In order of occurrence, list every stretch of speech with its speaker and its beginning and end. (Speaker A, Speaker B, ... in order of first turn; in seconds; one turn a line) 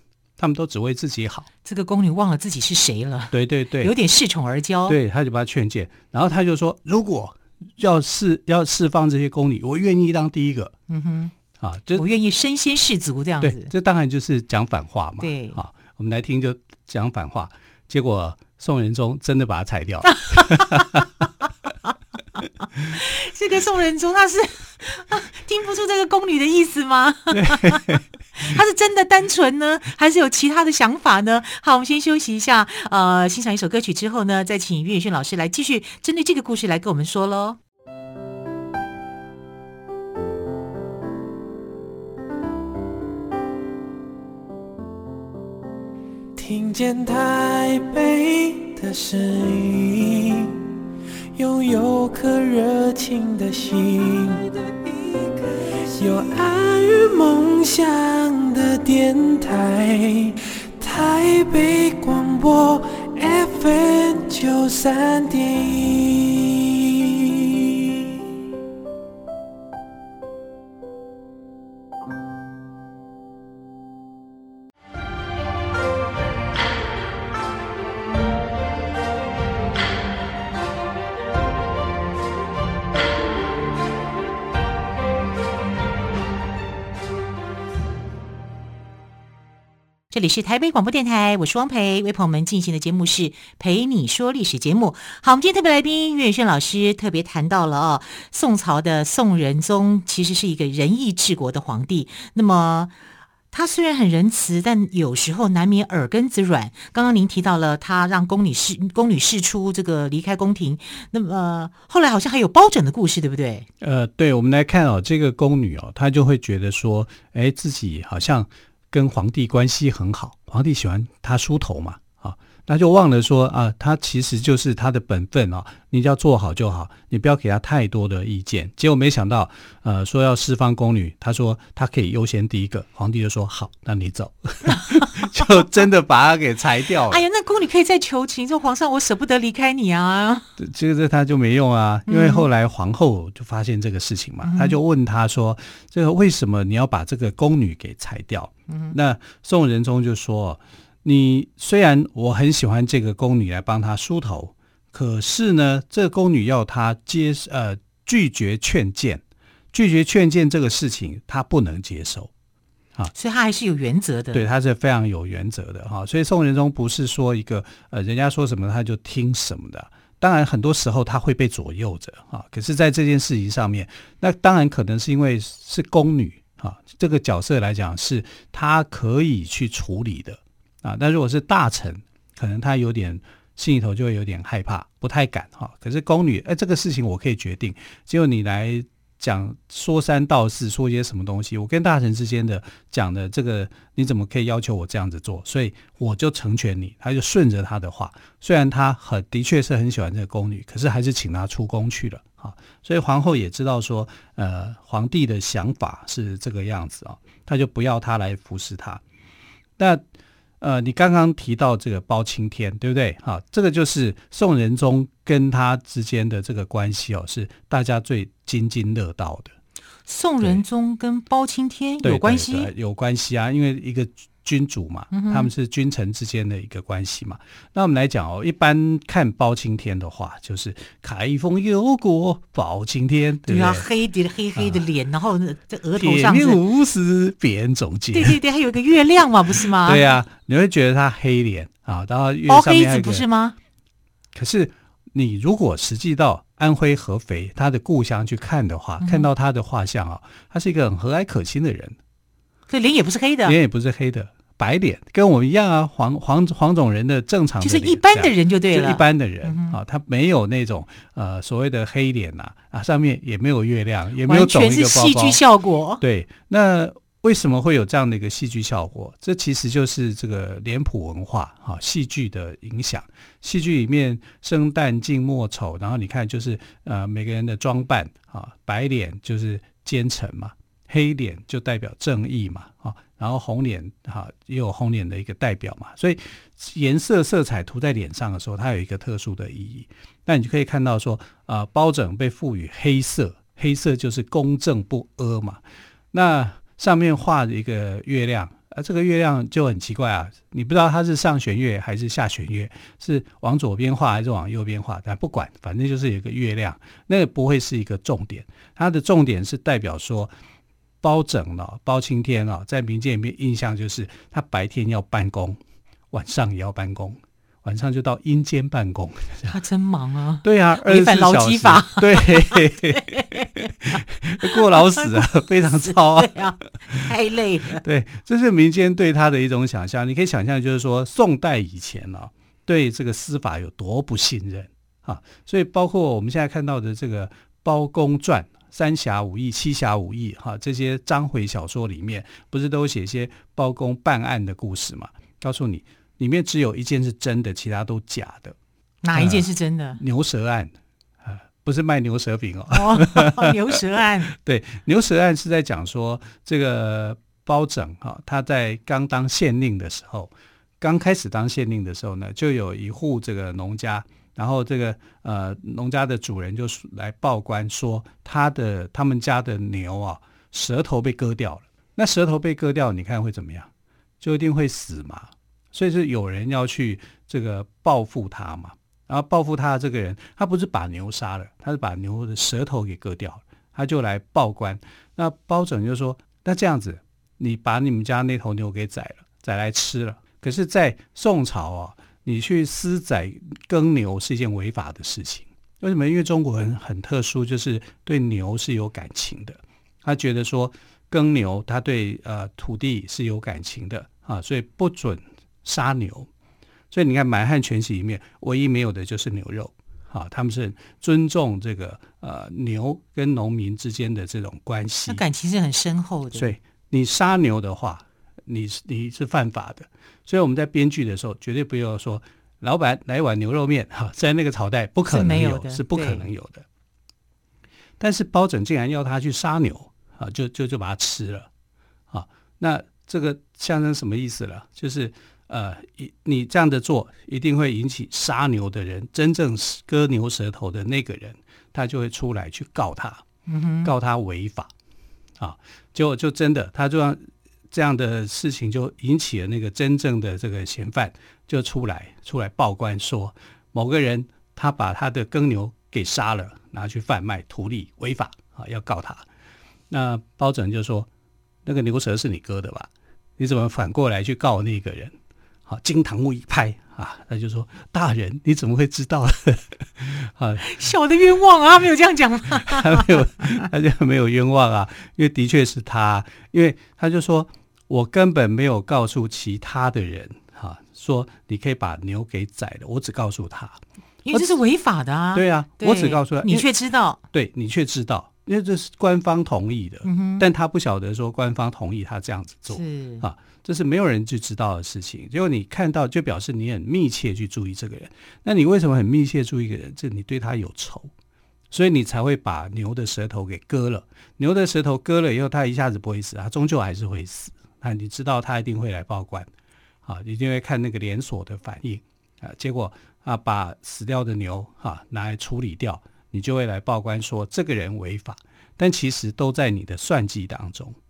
Speaker A: 0.4-1.5
Speaker B: 1.6-5.0
Speaker A: 3.3-3.9
Speaker A: 4.9-10.7
Speaker B: 10.9-11.3
Speaker A: 11.6-12.0
Speaker B: 11.9-13.7
Speaker A: 13.4-21.1
Speaker B: 15.2-15.6
Speaker B: 20.1-21.0
Speaker B: 22.9-37.6
Speaker A: 27.3-28.0
Speaker C: 46.4-50.6
Speaker C: 51.4-68.1
Speaker B: 90.1-102.9
Speaker B: 103.5-113.7
Speaker A: 113.8-137.2
Speaker B: 134.6-135.4
Speaker B: 137.1-140.5
Speaker A: 140.6-159.2
Speaker B: 142.1-142.5
Speaker B: 144.4-144.8
Speaker B: 148.7-148.9
Speaker A: 159.7-162.3
Speaker B: 163.1-164.4
Speaker A: 164.3-209.0
Speaker A: 209.8-210.0
Speaker A: 210.6-219.5
Speaker B: 220.1-222.7
Speaker A: 222.0-233.8
Speaker B: 225.1-225.5
Speaker B: 233.4-236.6
Speaker A: 234.6-234.9
Speaker A: 235.9-238.4
Speaker B: 238.1-240.1
Speaker A: 239.7-243.2
Speaker B: 242.5-243.6
Speaker A: 244.3-252.0
Speaker B: 249.0-249.3
Speaker B: 252.7-253.6
Speaker A: 253.4-265.4
Speaker B: 257.6-259.8
Speaker B: 264.2-266.0
Speaker A: 266.0-295.6
Speaker A: 296.1-310.3
Speaker A: 311.0-315.6
Speaker A: 316.1-319.6
Speaker B: 319.5-327.8
Speaker A: 320.4-327.1
Speaker A: 327.8-348.6
Speaker B: 349.0-350.0
Speaker A: 349.1-373.7
Speaker B: 352.7-354.3
Speaker A: 374.2-406.3
Speaker A: 406.9-415.2
Speaker B: 415.1-416.5
Speaker A: 416.3-426.6
Speaker B: 425.1-426.3
Speaker A: 428.0-431.5
Speaker A: 432.1-443.2
Speaker B: 443.5-443.9
Speaker A: 443.8-444.7
Speaker A: 445.4-459.2
Speaker A: 459.9-461.1
Speaker A: 461.6-470.7
Speaker B: 470.6-473.5
Speaker A: 472.6-483.8
Speaker B: 484.2-487.2
Speaker A: 484.3-484.6
Speaker A: 485.3-486.7
Speaker A: 487.3-501.1
Speaker B: 490.0-490.4
Speaker B: 492.7-493.2
Speaker A: 501.7-509.5
Speaker A: 510.0-521.0